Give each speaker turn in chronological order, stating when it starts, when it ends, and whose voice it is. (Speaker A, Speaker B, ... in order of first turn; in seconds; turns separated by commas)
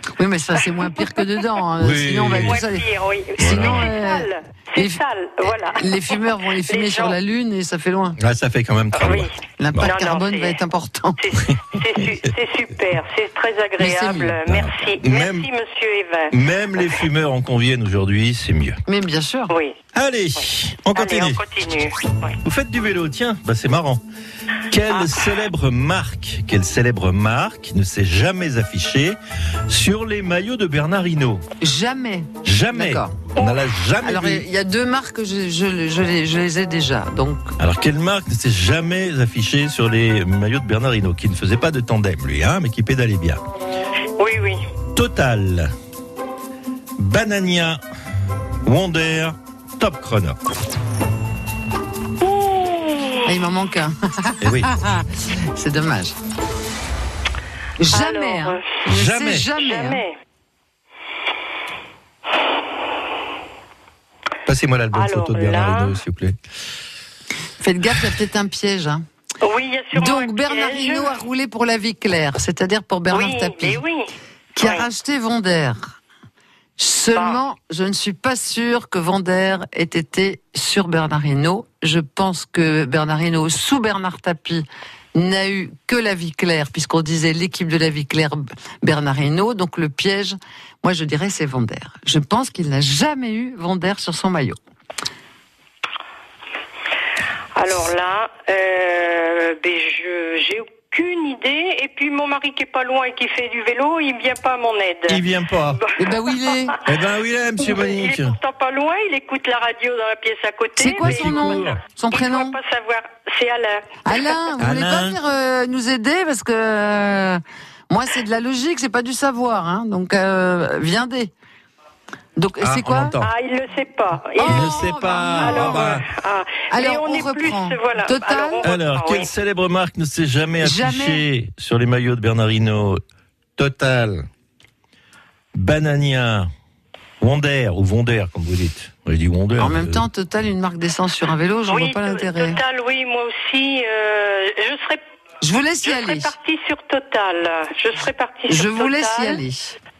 Speaker A: 0.2-2.9, Speaker B: 1.8-2.7, Speaker C: 2.4-7.2, Speaker B: 3.4-3.9, Speaker A: 3.4-8.2, Speaker B: 8.2-9.9, Speaker C: 8.9-10.6, Speaker A: 9.6-11.2, Speaker C: 11.2-16.4, Speaker B: 11.5-12.1, Speaker A: 13.8-14.4, Speaker B: 14.5-15.5, Speaker B: 16.3-18.8, Speaker A: 18.9-19.5, Speaker C: 19.5-19.8, Speaker B: 19.9-21.4, Speaker C: 20.9-22.4, Speaker B: 22.4-24.0, Speaker B: 24.7-31.4, Speaker C: 24.9-25.2, Speaker A: 31.6-33.2, Speaker B: 32.4-34.5, Speaker C: 33.4-33.6, Speaker A: 34.0-37.5, Speaker B: 37.6-43.4, Speaker C: 44.2-44.6, Speaker B: 45.0-45.7, Speaker B: 47.0-47.8, Speaker B: 48.6-50.4, Speaker C: 52.2-53.2, Speaker A: 53.2-56.2, Speaker B: 54.4-54.7, Speaker A: 57.8-60.0, Speaker C: 57.9-58.6, Speaker B: 58.9-59.5, Speaker C: 59.5-60.1, Speaker B: 64.5-66.4, Speaker C: 64.9-66.0, Speaker A: 67.6-69.0, Speaker C: 69.4-71.1, Speaker A: 69.9-73.8, Speaker C: 73.1-74.1, Speaker A: 74.6-75.9, Speaker C: 74.6-74.9, Speaker A: 76.8-94.6, Speaker C: 77.1-77.4, Speaker C: 97.6-105.2, Speaker B: 105.1-105.8, Speaker C: 105.8-106.7, Speaker A: 106.0-106.8, Speaker B: 106.8-108.4, Speaker C: 107.6-114.4, Speaker A: 110.8-112.6, Speaker B: 111.0-111.8, Speaker A: 114.1-121.3, Speaker B: 114.6-115.2, Speaker A: 122.4-123.1, Speaker B: 122.6-123.3, Speaker C: 123.2-129.3, Speaker A: 124.4-126.0, Speaker B: 124.4-126.0, Speaker A: 126.7-128.7, Speaker B: 128.6-133.0, Speaker A: 130.6-131.2, Speaker B: 133.6-134.3, Speaker B: 135.5-136.5, Speaker B: 137.2-140.1, Speaker A: 139.6-142.6, Speaker C: 141.7-145.0, Speaker A: 145.4-146.3, Speaker C: 145.8-149.4, Speaker A: 148.5-149.8